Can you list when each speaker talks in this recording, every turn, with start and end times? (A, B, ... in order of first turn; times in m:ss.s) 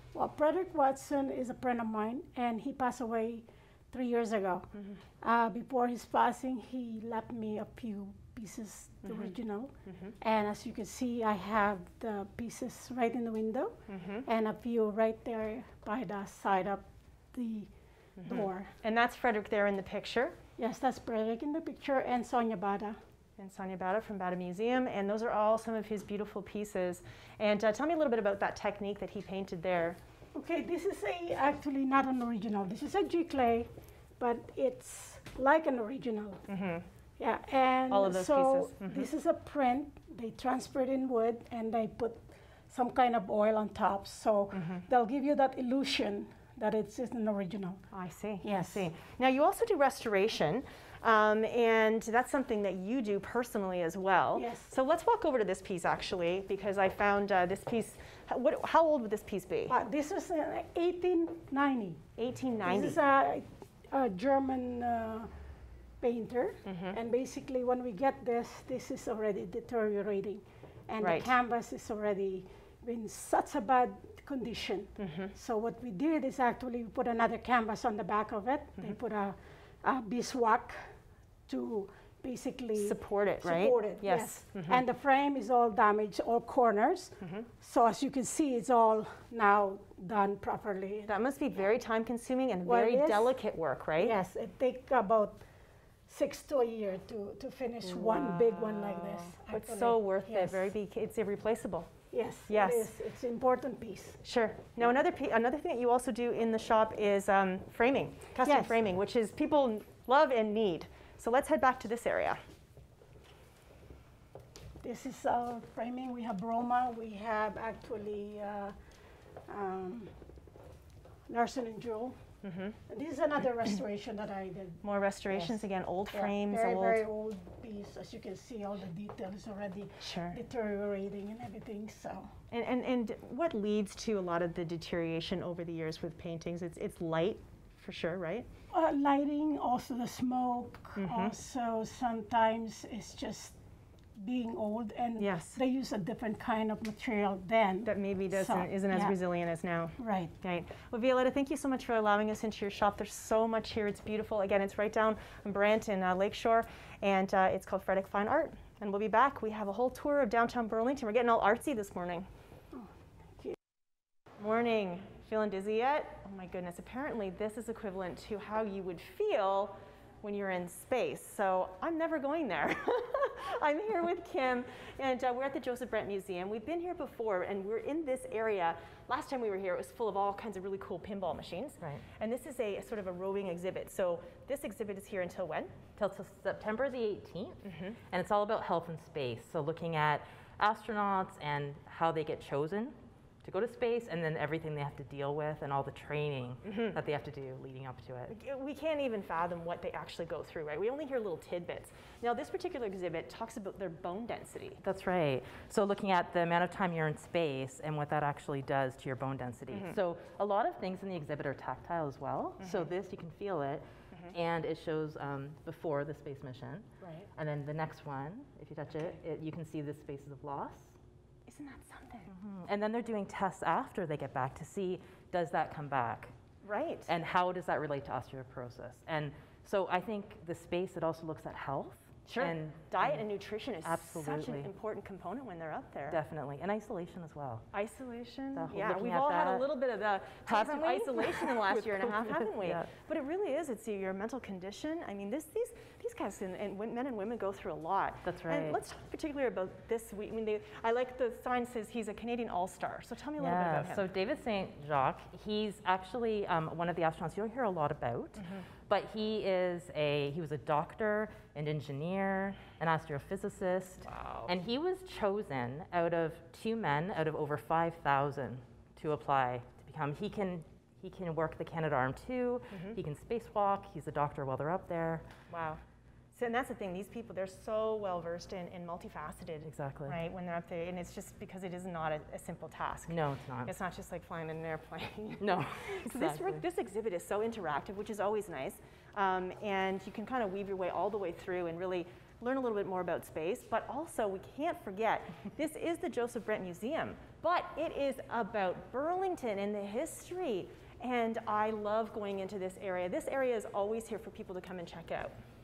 0:00.1-0:04.7 A
0:05.2-0:18.7 A
0:09.0-0:09.3 B
0:09.8-0:10.1 B
0:13.9-0:14.2 B
0:18.2-0:20.4 B
0:20.6-0:23.0 A
0:23.4-0:30.0 B
0:30.3-0:36.4 A
0:36.5-0:36.8 B
0:37.2-0:47.9 A
0:37.9-0:39.1 B
0:44.5-0:44.8 B
0:47.9-0:59.7 B
0:48.4-0:48.9 A
0:54.3-0:54.7 A
0:59.7-1:02.0 A
1:02.2-1:03.0 B
1:02.6-1:05.3 A
1:06.0-1:20.9 A
1:06.6-1:07.0 B
1:11.0-1:11.3 B
1:15.0-1:15.3 B
1:21.5-1:31.1 A
1:22.8-1:24.8 B
1:27.2-1:27.5 B
1:31.1-1:34.2 B
1:32.6-1:33.4 A
1:34.0-1:35.4 A
1:36.1-1:40.7 A
1:37.8-1:41.9 B
1:42.1-1:44.2 A
1:42.5-1:42.9 B
1:44.2-1:52.4 B
1:48.4-1:48.8 A
1:54.8-1:58.7 A
1:59.5-2:00.1 A
2:01.3-2:02.2 A
2:02.4-2:02.8 B
2:02.9-2:12.3 A
2:04.8-2:07.0 B
2:10.0-2:10.4 B
2:12.5-2:18.5 B
2:18.7-2:23.6 A
2:21.0-2:21.3 B
2:24.2-2:29.2 A
2:25.2-2:25.6 B
2:27.8-2:42.3 B
2:30.0-2:30.3 A
2:42.7-2:43.5 A
2:44.4-3:05.7 B
3:06.0-3:18.3 C
3:07.6-3:08.0 B
3:16.6-3:17.0 B
3:18.3-3:24.8 B
3:24.8-3:40.9 C
3:29.7-3:30.0 B
3:32.6-3:32.9 B
3:37.0-3:37.3 B
3:41.5-3:42.3 B
3:42.3-3:46.3 C
3:46.6-3:47.1 B
3:47.1-3:53.3 C
3:52.2-3:56.2 B
3:53.8-3:54.7 C
3:56.1-3:57.6 C
3:57.7-4:14.1 B
3:58.5-3:59.6 C
4:00.4-4:02.9 C
4:08.2-4:08.8 C
4:13.4-4:35.3 C
4:18.4-4:18.6 B
4:24.0-4:24.5 B
4:32.7-4:33.0 B
4:35.5-4:35.8 B
4:36.3-5:05.3 B
4:39.6-4:40.2 C
4:43.1-4:43.7 C
4:45.4-4:46.6 C